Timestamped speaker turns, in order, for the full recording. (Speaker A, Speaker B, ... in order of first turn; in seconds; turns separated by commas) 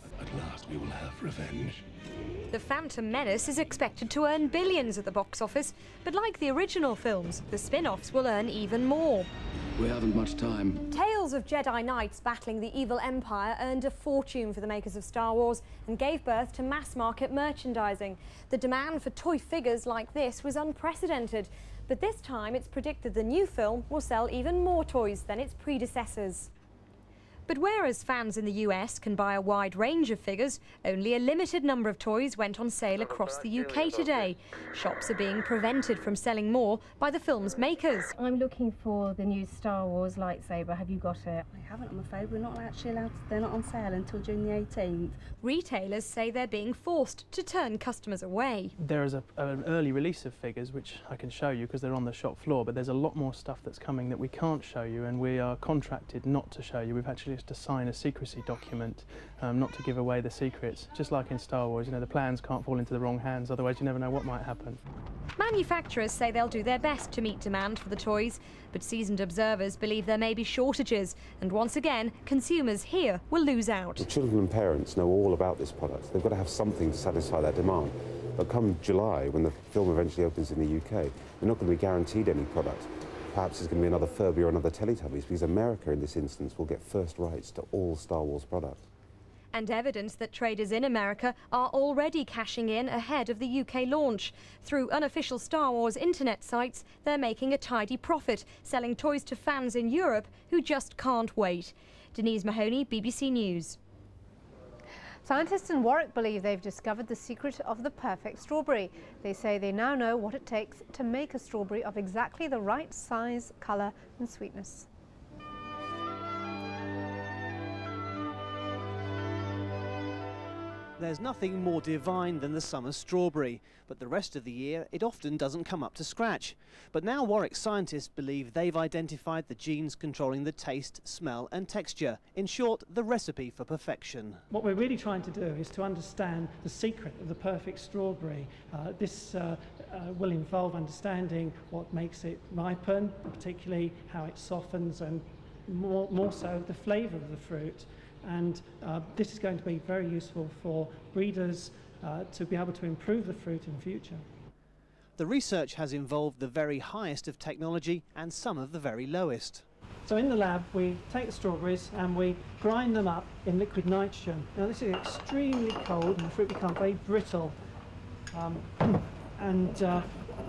Speaker A: 0.2-1.8, Speaker B: 2.5-9.3, Speaker A: 9.8-10.8, Speaker B: 10.9-26.5, Speaker B: 27.5-38.1, Speaker C: 38.2-41.5, Speaker D: 41.5-45.3, Speaker B: 45.4-48.7, Speaker E: 48.8-64.8, Speaker B: 65.4-74.1, Speaker F: 74.0-88.8, Speaker B: 89.5-103.8, Speaker G: 105.2-114.9, Speaker H: 121.0-134.4, Speaker I: 134.5-154.2, Speaker H: 155.2-159.7, Speaker I: 160.1-167.6, Speaker I: 168.3-170.1